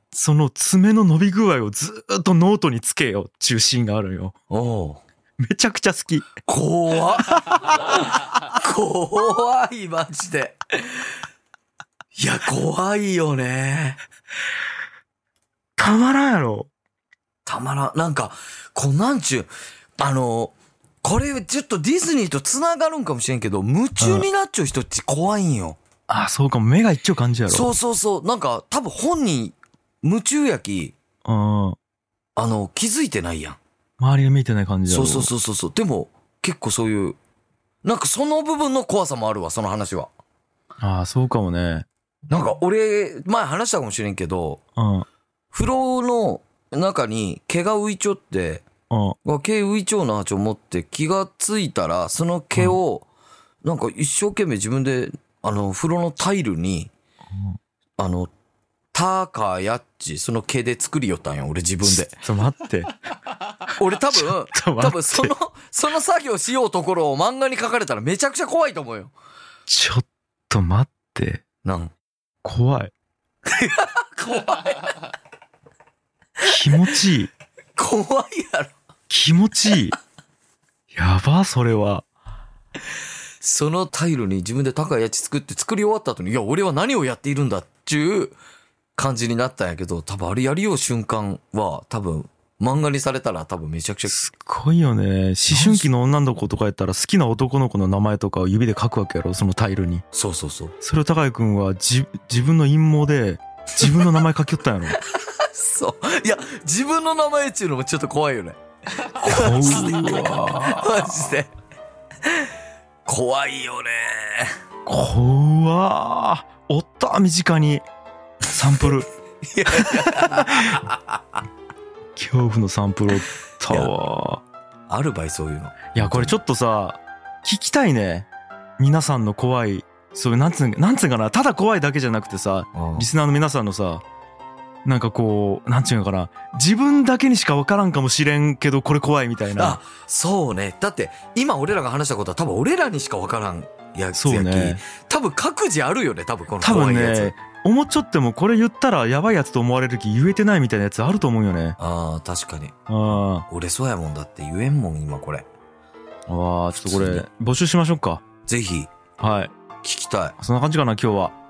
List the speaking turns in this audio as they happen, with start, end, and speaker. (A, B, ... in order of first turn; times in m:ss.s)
0:00.1-0:04.4 A
0:04.5-0:05.0 B
0:05.4-0:06.3 A
0:06.4-0:11.1 B
0:12.2-0:14.0 B
0:15.8-0:16.7 A
0:17.4-0:25.8 B
0:24.0-0:24.3 A
0:26.1-0:27.7 A
0:27.5-0:31.0 B
0:31.2-0:31.8 A
0:32.4-0:33.6 B
0:34.0-0:35.3 A
0:34.9-0:37.2 B
0:37.8-0:40.1 B
0:40.8-0:41.9 A
0:42.3-0:44.6 B
0:44.8-0:45.0 A
0:45.5-0:48.6 B
0:48.9-0:49.2 A
0:49.2-0:53.1 B
0:53.6-0:56.9 B
0:58.0-0:58.3 B
0:58.9-1:02.2 B
1:01.9-1:03.0 A
1:03.8-1:09.1 B
1:04.1-1:05.3 A
1:09.7-1:11.4 A
1:11.6-1:11.9 B
1:12.4-1:12.9 A
1:13.4-1:15.1 B
1:16.4-1:17.3 A
1:17.8-1:18.7 B
1:19.1-1:20.0 A
1:20.9-1:22.0 A
1:23.4-1:28.4 B
1:29.0-1:34.2 B
1:34.1-1:40.0 A
1:35.5-1:35.9 B
1:40.1-1:40.7 B
1:40.8-1:45.0 A
1:43.8-1:44.1 B
1:45.0-1:48.6 B
1:49.1-1:51.5 B
1:49.2-1:51.3 A
1:52.2-1:52.5 B
1:53.0-1:54.5 B
1:54.9-1:57.8 A
1:58.5-1:59.1 A
1:59.4-2:01.2 B
1:59.7-2:00.8 A
2:02.2-2:04.4 A
2:04.9-2:06.4 B
2:05.9-2:08.3 A
2:08.8-2:14.0 A
2:12.7-2:13.1 B
2:14.8-2:19.8 A
2:19.5-2:27.3 B
2:24.1-2:24.8 A
2:26.6-2:31.8 A
2:31.8-2:32.7 B
2:32.9-2:33.4 A
2:33.5-2:35.4 B
2:36.3-2:38.2 A
2:36.8-2:37.2 B
2:38.4-2:38.9 B
2:39.2-2:39.5 A
2:39.8-2:40.4 B
2:40.4-2:41.4 A